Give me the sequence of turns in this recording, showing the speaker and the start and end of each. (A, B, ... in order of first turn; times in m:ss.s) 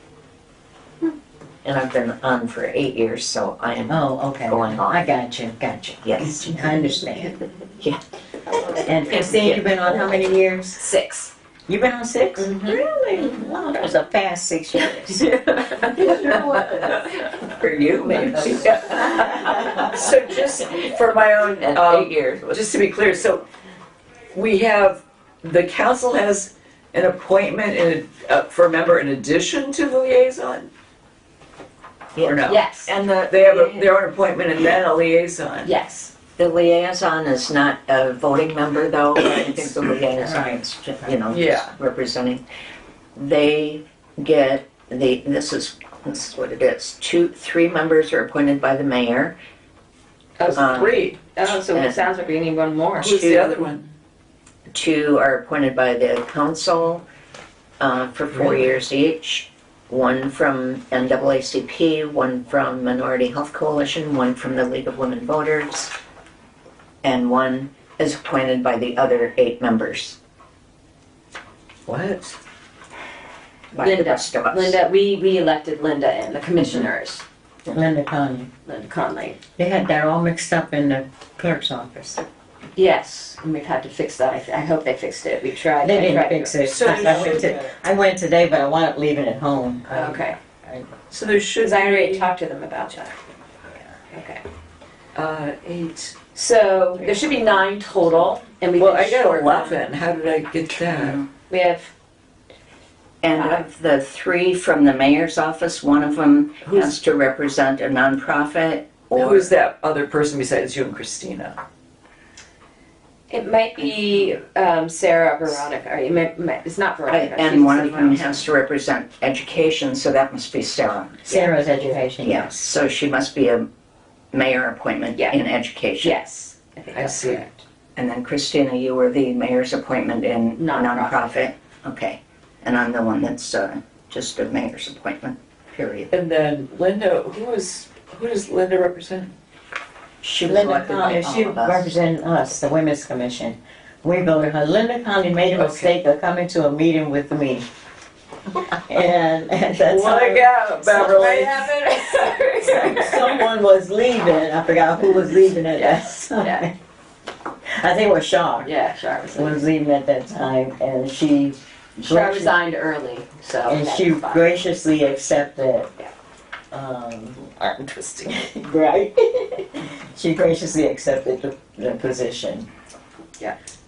0:01.6-0:05.1 A
0:03.9-0:07.4 B
0:06.0-0:06.6 A
0:08.8-0:10.8 B
0:09.1-0:10.0 A
0:10.8-0:11.3 C
0:11.7-0:15.2 B
0:12.5-0:13.3 C
0:14.9-0:15.8 C
0:15.8-0:17.1 D
0:16.0-0:20.1 A
0:18.0-0:23.4 D
0:21.4-0:22.7 A
0:24.3-0:30.7 D
0:32.2-0:33.8 A
0:32.2-0:35.7 D
0:32.4-0:32.9 C
0:35.6-0:36.1 C
0:36.4-0:42.4 A
0:40.2-0:40.6 B
0:41.3-0:41.7 D
0:43.1-0:49.4 A
0:50.4-0:53.2 C
0:50.5-0:52.0 A
0:53.0-0:53.9 D
0:53.0-0:53.6 A
0:54.7-0:57.0 A
0:57.8-1:05.9 A
1:07.0-1:10.2 A
1:11.9-1:12.4 D
1:13.7-1:14.8 A
1:13.8-1:17.2 C
1:17.7-1:18.5 B
1:18.6-1:19.4 C
1:19.6-1:22.2 B
1:22.8-1:27.4 C
1:25.8-1:30.9 B
1:26.7-1:27.7 D
1:29.9-1:30.4 C
1:31.1-1:32.3 D
1:31.6-1:33.2 C
1:34.1-1:34.4 C
1:35.1-1:36.2 D
1:36.3-1:39.8 C
1:38.8-1:41.2 D
1:41.5-1:41.9 C
1:43.2-1:49.5 A
1:43.3-1:43.6 C
1:46.7-1:46.9 D
1:49.2-1:51.6 D
1:53.3-1:58.4 C
1:57.1-2:01.2 A
2:01.2-2:02.7 B
2:01.3-2:01.8 C
2:02.2-2:03.7 A
2:04.3-2:06.2 A
2:06.0-2:07.6 C
2:06.9-2:07.4 D
2:08.0-2:16.1 A
2:10.6-2:11.5 C
2:16.1-2:19.3 D
2:20.2-2:21.9 A
2:20.4-2:27.6 B
2:25.5-2:25.9 D
2:28.7-2:30.5 B
2:29.8-2:32.0 D
2:30.8-2:33.5 C
2:32.6-2:36.7 B
2:35.7-2:36.7 C
2:37.8-2:38.7 B
2:38.6-2:39.6 C
2:39.3-2:42.5 B
2:42.0-2:44.5 C
2:43.6-2:45.9 B
2:46.7-2:52.7 B